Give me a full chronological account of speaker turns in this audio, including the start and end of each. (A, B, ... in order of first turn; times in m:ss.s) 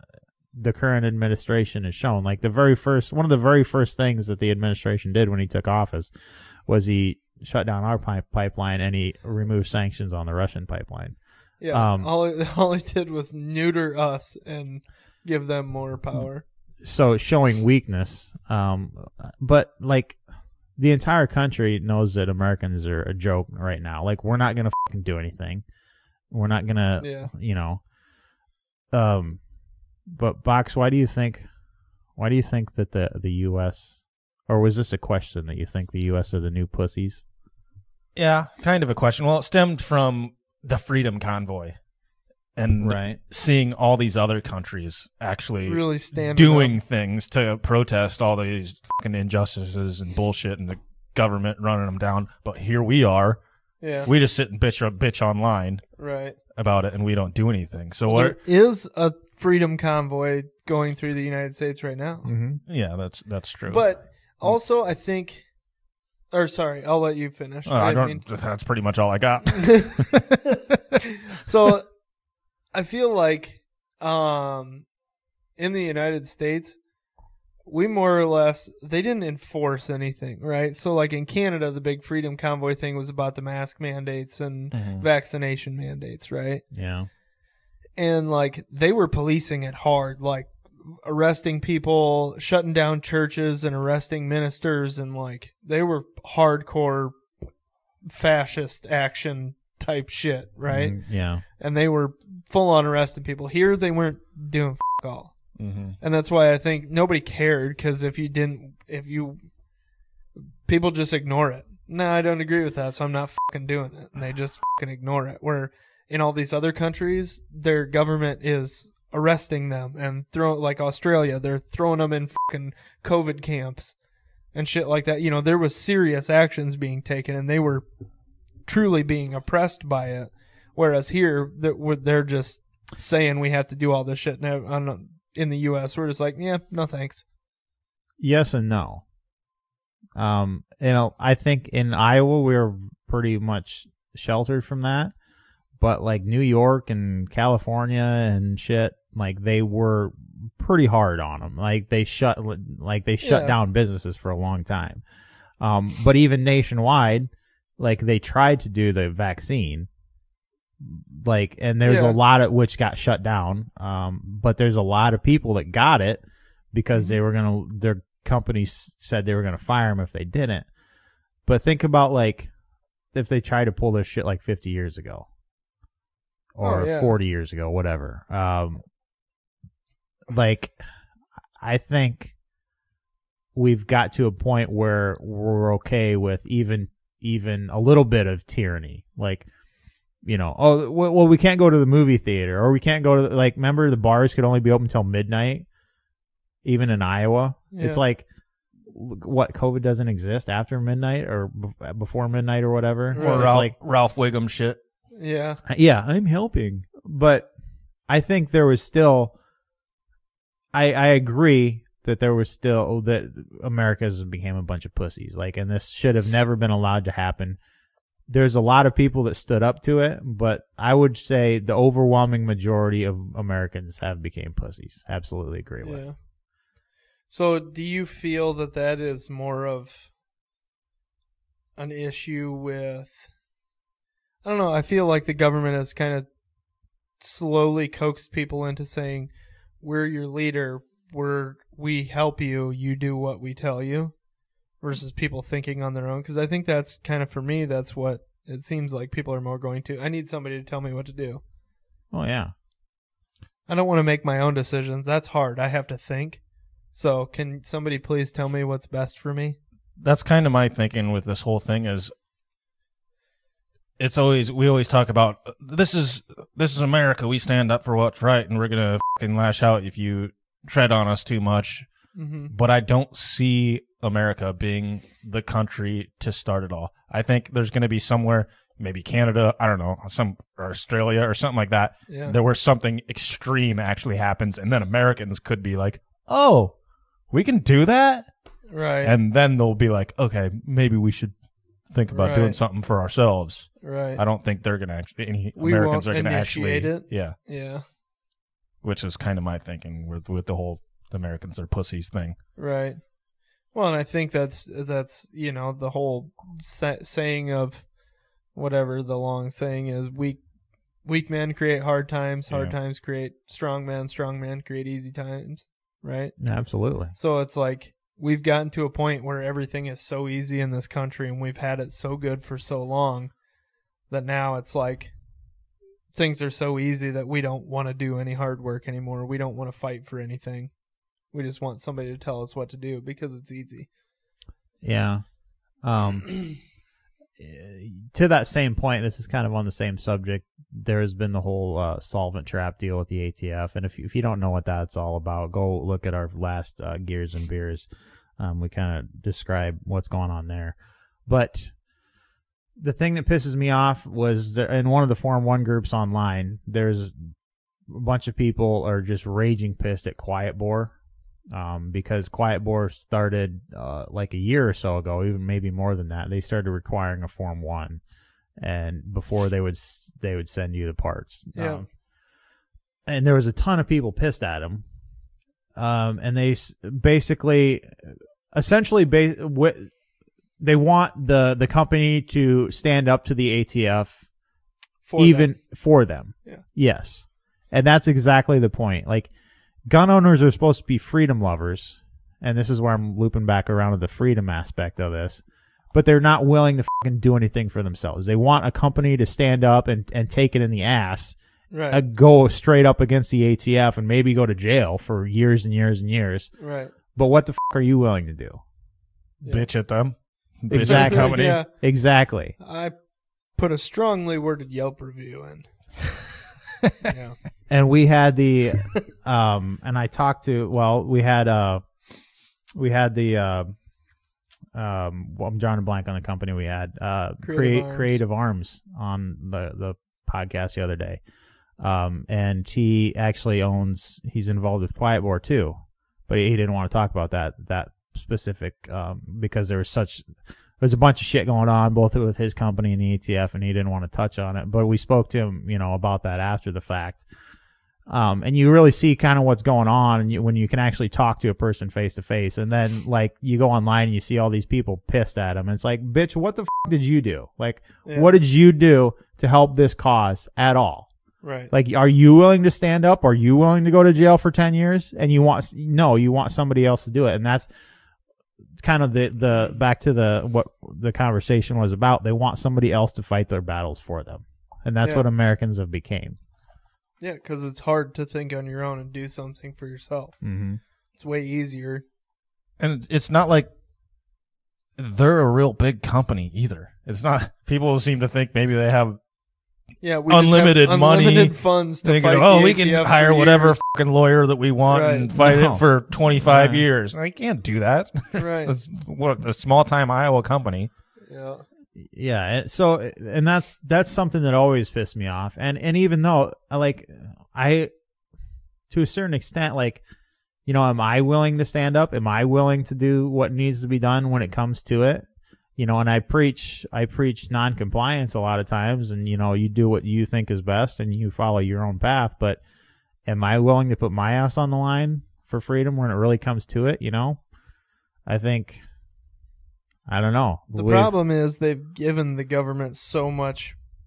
0:00.5-0:06.1 A
0:06.7-0:11.2 A
0:11.6-0:16.4 B
0:11.7-0:12.1 A
0:16.8-0:20.2 A
0:20.8-0:25.6 A
0:26.3-0:27.8 A
0:27.0-0:27.3 B
0:28.9-0:29.4 A
0:30.1-0:31.4 A
0:32.2-0:37.2 A
0:38.1-0:41.8 C
0:42.6-0:53.4 C
0:42.8-0:43.2 A
0:45.6-0:46.7 B
0:53.8-0:54.1 B
0:54.0-0:55.8 C
0:56.0-0:56.4 B
0:56.5-0:58.4 C
0:58.1-1:02.3 B
1:02.2-1:02.6 A
1:02.7-1:04.5 C
1:03.7-1:05.5 B
1:06.3-1:08.2 B
1:07.6-1:10.8 C
1:09.5-1:10.1 B
1:11.3-1:11.9 B
1:12.7-1:14.9 B
1:15.6-1:16.8 B
1:17.6-1:26.6 B
1:24.7-1:25.0 C
1:26.7-1:27.1 A
1:28.0-1:37.2 B
1:38.0-1:41.0 B
1:40.7-1:41.4 A
1:41.6-1:49.4 B
1:45.6-1:46.0 C
1:50.6-2:04.0 B
2:04.5-2:07.8 B
2:08.6-2:17.2 B
2:18.2-2:19.0 A
2:20.2-2:25.1 A
2:25.8-2:35.0 A
2:33.2-2:33.6 B
2:35.6-2:39.9 A
2:40.8-2:50.7 A
2:41.8-2:42.2 B
2:51.4-2:52.5 A
2:53.1-2:55.3 A
2:56.5-2:58.8 A
2:56.6-2:57.2 B
3:00.3-3:00.7 A
3:01.6-3:02.3 A
3:03.5-3:09.5 A
3:10.2-3:15.6 A
3:16.6-3:18.2 A
3:17.7-3:18.0 B
3:18.8-3:23.7 A
3:23.1-3:23.6 B
3:23.2-3:24.8 C
3:25.1-3:25.6 B
3:25.6-3:27.5 A
3:28.1-3:29.3 A
3:30.7-3:37.6 A
3:38.3-3:46.0 A
3:45.8-3:46.1 B
3:47.3-3:50.1 B
3:51.8-3:53.3 B
3:54.4-3:56.3 B
3:57.2-4:04.1 B
4:04.8-4:11.4 B
4:12.1-4:12.5 A
4:13.7-4:16.4 B
4:16.9-4:19.6 B
4:20.0-4:22.1 C
4:24.0-4:31.9 C
4:32.1-4:32.5 B
4:32.5-4:46.7 C
4:42.1-4:42.4 B
4:47.3-4:48.3 C
4:48.7-4:49.2 B
4:49.0-4:51.3 C
4:51.9-4:57.4 C
4:52.1-4:52.6 B
4:53.8-4:54.2 B
4:55.6-4:57.8 B
4:58.8-5:02.4 C
5:02.6-5:03.1 B
5:03.7-5:07.9 B
5:08.5-5:10.4 B
5:11.0-5:16.4 B
5:16.4-5:17.1 A
5:17.1-5:23.3 B
5:24.1-5:25.1 B
5:26.1-5:33.9 B
5:34.8-5:35.3 A
5:35.8-5:36.6 A
5:37.4-5:51.7 A
5:52.8-5:57.3 A
5:57.9-6:00.9 A
6:01.5-6:08.0 A
6:08.6-6:11.8 A
6:11.5-6:11.8 B
6:13.0-6:14.8 A
6:15.8-6:19.9 A
6:20.6-6:24.2 A
6:25.0-6:25.5 B
6:25.2-6:29.3 A
6:29.9-6:35.4 A
6:35.9-6:41.4 A
6:41.7-6:42.0 B
6:41.9-6:46.5 A
6:46.6-6:46.9 B
6:47.1-6:48.6 A
6:49.4-6:49.7 B
6:49.5-6:51.6 C
6:50.7-6:52.5 A
6:50.7-6:51.7 B
6:52.6-6:52.9 B
6:53.5-6:55.6 B
6:56.8-6:57.1 C
6:57.0-6:57.4 B
6:57.7-7:01.8 A
7:02.8-7:03.7 A
7:04.7-7:11.2 A
7:07.4-7:08.2 B
7:11.8-7:15.8 A
7:16.3-7:20.3 A
7:20.8-7:27.2 A
7:28.1-7:41.1 A
7:38.0-7:38.3 B
7:41.4-7:41.7 B
7:41.7-7:47.7 A
7:48.8-7:56.4 A
7:57.2-8:00.3 B
8:00.4-8:00.8 A
8:01.2-8:02.0 B
8:02.8-8:03.7 C
8:05.0-8:09.2 C
8:10.0-8:13.8 B
8:10.3-8:20.9 C
8:14.9-8:15.3 B
8:15.4-8:15.8 A
8:16.4-8:16.8 A
8:18.3-8:18.8 B
8:21.3-8:21.6 B
8:22.0-8:27.9 A
8:28.9-8:30.0 A
8:30.6-8:35.2 A
8:35.8-8:42.6 A
8:43.2-8:47.4 A
8:48.2-8:48.8 A
8:50.1-8:51.1 A
8:50.7-8:53.8 B